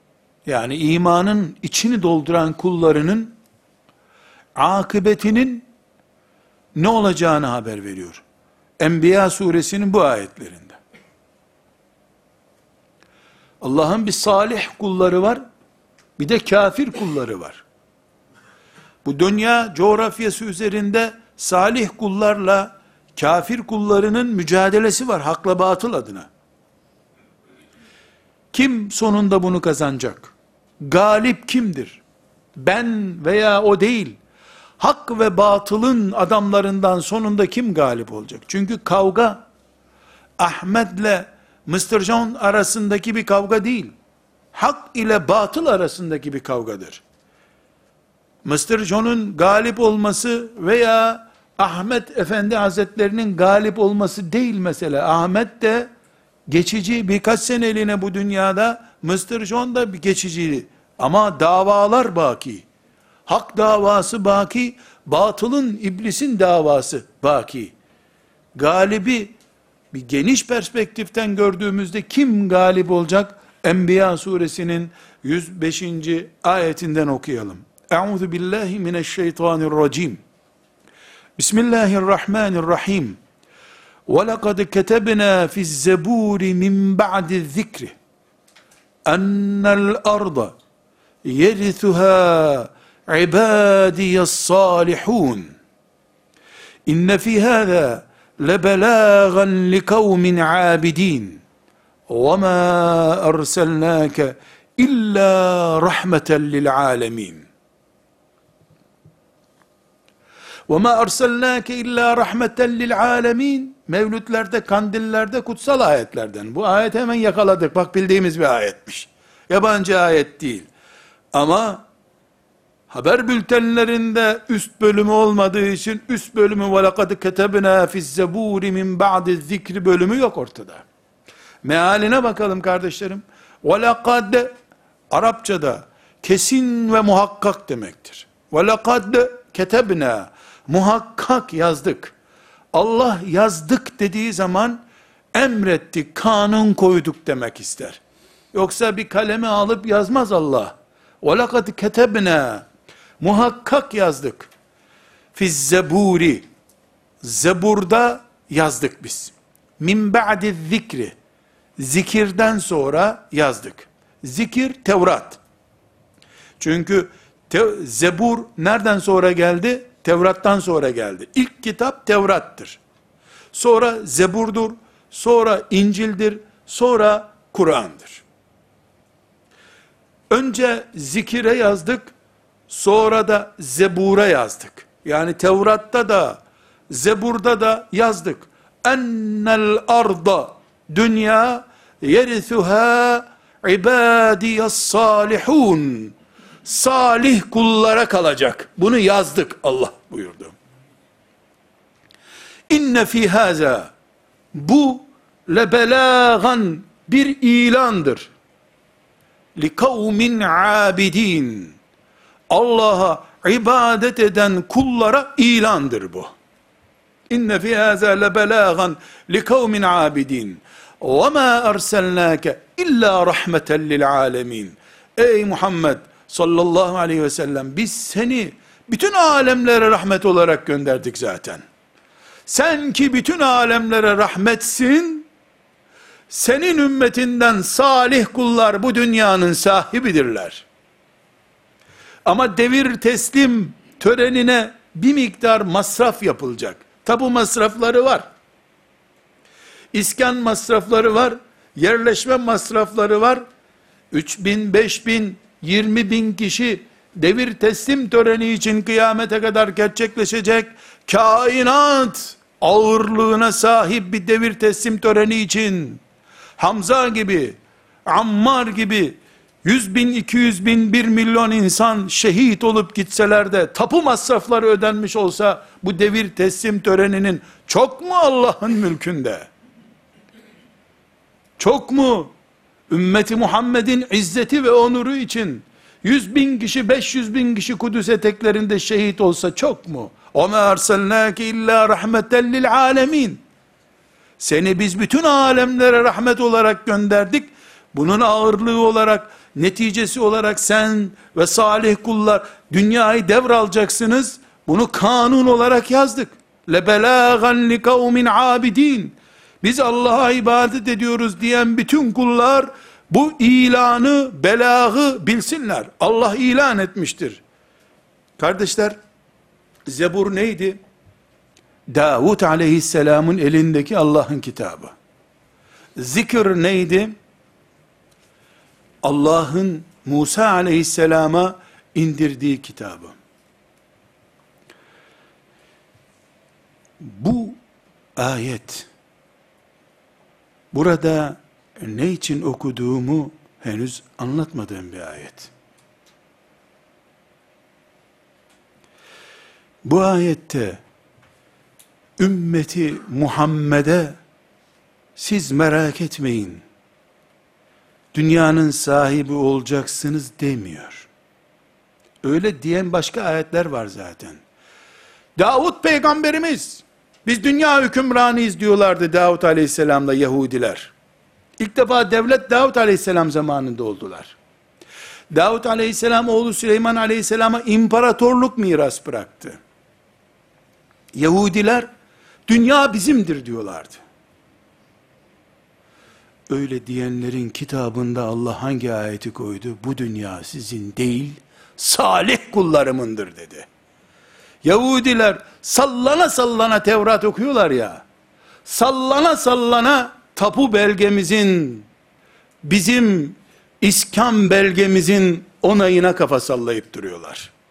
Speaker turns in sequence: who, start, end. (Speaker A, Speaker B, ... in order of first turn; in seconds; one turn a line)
Speaker A: 0.5-3.4
Speaker A: 4.5-5.7
Speaker A: 6.7-8.2
Speaker A: 8.8-10.8
Speaker A: 13.6-15.4
Speaker A: 16.2-17.6
Speaker A: 19.0-26.3
Speaker A: 28.5-32.0
Speaker A: 32.6-34.2
Speaker A: 34.8-39.5
Speaker A: 40.4-44.0
Speaker A: 44.5-47.0
Speaker A: 48.4-55.9
Speaker A: 56.5-62.7
Speaker A: 63.2-67.7
Speaker A: 68.5-69.3
Speaker A: 69.9-80.2
Speaker A: 81.4-83.2
Speaker A: 84.1-87.9
Speaker A: 89.0-90.5
Speaker A: 91.2-95.5
Speaker A: 96.8-101.4
Speaker A: 102.1-107.5
Speaker A: 110.7-120.7
Speaker A: 121.3-121.8
Speaker A: 122.9-130.8
Speaker A: 131.6-134.5
Speaker A: 135.1-142.1
Speaker A: 142.7-148.0
Speaker A: 148.5-152.7
Speaker A: 153.2-154.5
Speaker A: 155.3-156.4
Speaker A: 157.2-161.1
Speaker A: 161.8-165.4
Speaker A: 166.6-172.8
Speaker A: 173.5-178.2
Speaker A: 180.3-182.1
Speaker A: 182.7-200.6
Speaker A: 202.7-203.9
Speaker A: 204.5-208.3
Speaker A: 209.6-211.8
Speaker A: 212.5-216.3
Speaker A: 217.3-231.6
Speaker A: 232.5-235.3
Speaker A: 236.3-240.7
Speaker A: 242.2-248.3
Speaker A: 249.9-253.4
Speaker A: 254.1-266.0
Speaker A: 266.6-279.5
Speaker A: 281.6-282.3
Speaker A: 282.9-293.4
Speaker A: 294.4-317.4
Speaker A: 318.4-318.9
Speaker A: 319.9-320.8
Speaker A: 321.9-324.9
Speaker A: 326.0-327.1
Speaker A: 329.0-333.1
Speaker A: 337.0-337.6
Speaker A: 338.1-338.9
Speaker A: 340.7-345.5
Speaker A: 349.8-350.8
Speaker A: 352.2-354.2
Speaker A: 355.1-356.6
Speaker A: 358.1-361.1
Speaker A: 362.2-364.4
Speaker A: 365.4-370.9
Speaker A: 371.6-374.4
Speaker A: 375.3-379.6
Speaker A: 381.1-381.9
Speaker A: 382.5-384.0
Speaker A: 386.5-393.7
Speaker A: 394.6-398.0
Speaker A: 398.6-401.9
Speaker A: 402.6-407.5